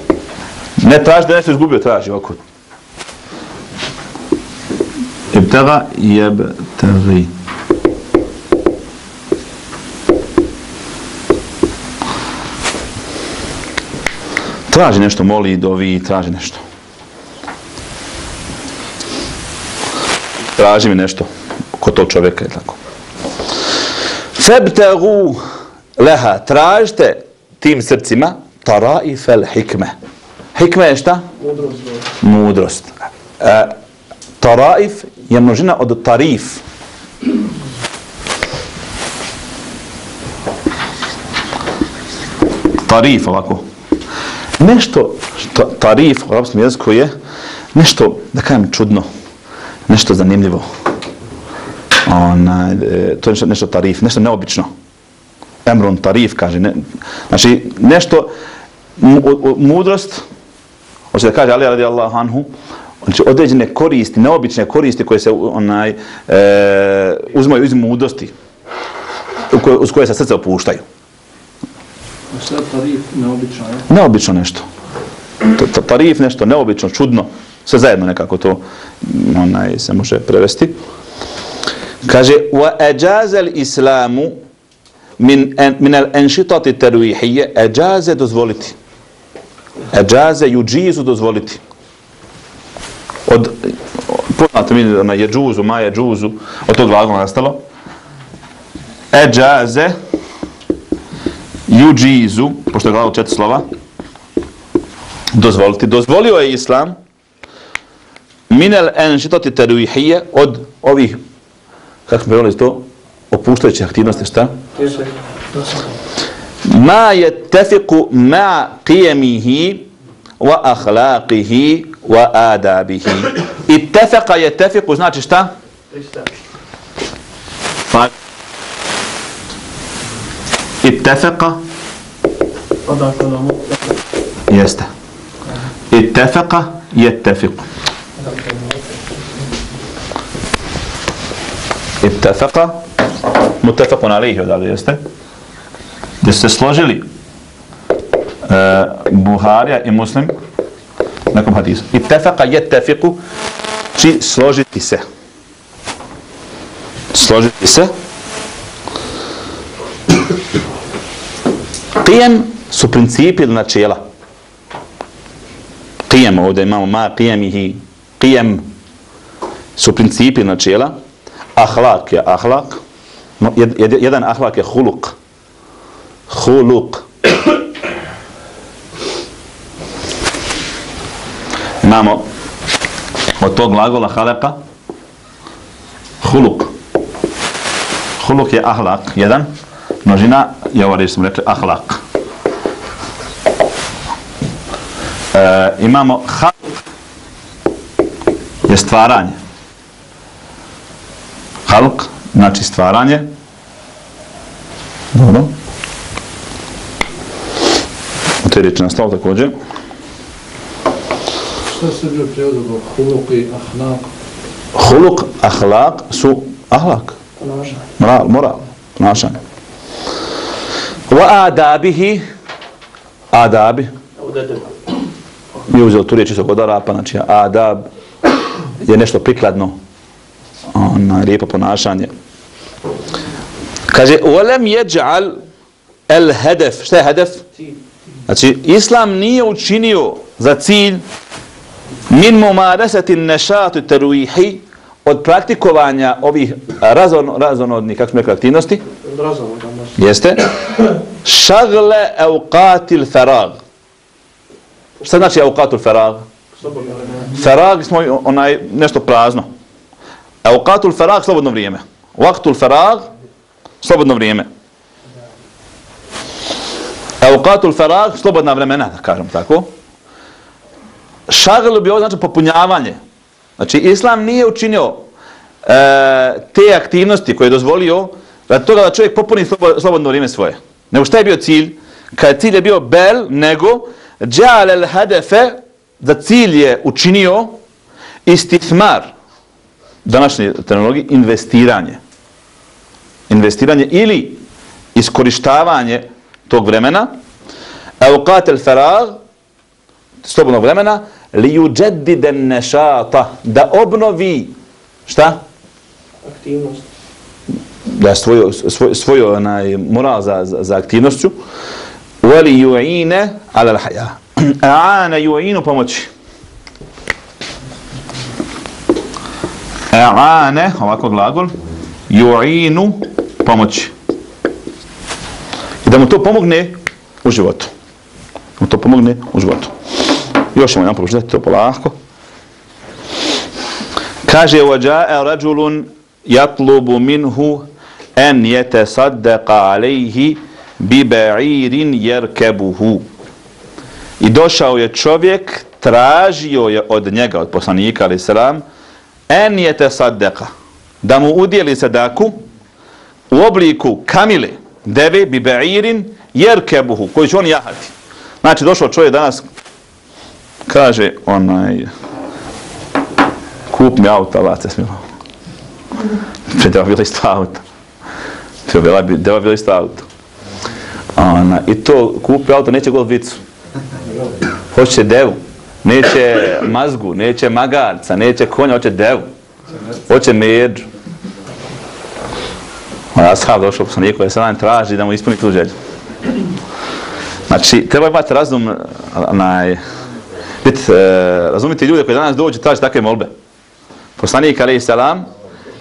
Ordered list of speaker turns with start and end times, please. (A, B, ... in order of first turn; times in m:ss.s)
0:00.8-0:02.4 A
0:05.3-0:07.3 A
0:14.7-0:16.6 A
0:20.5-0:22.8 A
0:24.3-0:25.4 A
0:26.0-0:29.9 A
0:30.5-0:31.2 A
0:31.4-0:32.0 B
0:32.2-0:33.7 A
0:34.4-0:36.6 A
0:42.8-0:43.6 A
0:44.6-0:47.1 A
0:47.7-0:49.1 A
0:49.9-0:50.7 A
0:52.0-0:54.7 A
0:55.6-0:58.3 A
0:59.0-1:00.2 A
1:01.1-1:02.5 A
1:03.0-1:08.3 A
1:09.5-1:10.8 A
1:12.3-1:13.8 C
1:13.9-1:14.6 A
1:15.5-1:20.8 A
1:22.0-1:24.4 A
1:25.2-1:28.8 A
1:29.9-1:31.6 A
1:33.2-1:37.6 A
1:39.1-1:39.9 A
1:41.7-1:43.6 A
1:45.3-1:47.0 A
1:48.5-1:51.2 A
1:52.1-1:54.6 A
1:54.8-1:55.2 B
1:56.6-1:59.9 A
2:00.4-2:05.5 A
2:05.9-2:06.3 B
2:07.9-2:08.1 A
2:10.8-2:11.6 A
2:12.8-2:14.0 B
2:14.5-2:14.9 A
2:15.9-2:17.6 A
2:18.2-2:19.0 C
2:22.0-2:22.8 A
2:23.6-2:25.0 A
2:26.2-2:27.0 A
2:28.4-2:30.3 A
2:31.3-2:33.2 A
2:33.9-2:35.0 A
2:37.1-2:37.9 A
2:42.0-2:44.0 A
2:46.1-2:48.7 A
2:49.8-2:51.0 A
2:51.6-2:52.8 A
2:53.4-2:55.1 A
2:56.3-2:57.0 A
3:01.8-3:02.2 A
3:03.4-3:04.6 A
3:06.2-3:06.7 A
3:08.2-3:09.5 A
3:10.0-3:12.0 A
3:15.3-3:16.6 A
3:18.6-3:19.4 A
3:21.6-3:23.3 A
3:25.1-3:25.5 A
3:28.4-3:29.5 A
3:31.6-3:34.1 C
3:34.7-3:37.2 A
3:37.4-3:37.8 B
3:38.0-3:39.4 A
3:41.1-3:42.2 A
3:43.3-3:43.9 A
3:44.2-3:44.7 B
3:45.7-3:47.9 A
3:48.8-3:49.8 A
3:50.7-3:52.1 A
3:53.9-3:55.4 A
3:56.1-3:57.4 A
3:58.3-4:01.0 A
4:02.1-4:08.8 A
4:09.0-4:09.9 B
4:10.0-4:10.5 A
4:11.2-4:13.6 A
4:15.0-4:16.2 A
4:16.6-4:17.4 B
4:17.4-4:19.5 A
4:20.4-4:23.1 A
4:23.8-4:24.5 A
4:27.2-4:29.7 A
4:31.3-4:33.0 A
4:33.6-4:35.0 A
4:35.6-4:47.6 A
4:48.2-4:49.1 A
4:50.0-4:52.0 A
4:53.3-4:54.4 A
4:54.9-4:57.1 A
4:58.0-4:59.2 A
5:00.2-5:04.5 A
5:05.1-5:05.4 A
5:06.2-5:06.8 B
5:07.9-5:11.3 A
5:12.2-5:16.1 A
5:19.9-5:21.5 A
5:22.1-5:23.9 A
5:25.8-5:27.7 A
5:28.6-5:29.7 A
5:30.5-5:32.0 A
5:34.2-5:43.0 A
5:44.2-5:48.6 A
5:49.3-5:50.5 A
5:51.0-5:52.4 A
5:53.3-5:59.4 A
6:00.7-6:01.9 A
6:03.7-6:05.0 A
6:06.5-6:07.6 A
6:08.6-6:10.0 A
6:11.2-6:13.4 A
6:14.7-6:19.3 A
6:20.1-6:20.8 A
6:23.1-6:25.7 A
6:27.5-6:29.8 A
6:30.6-6:33.3 A
6:34.2-6:35.3 A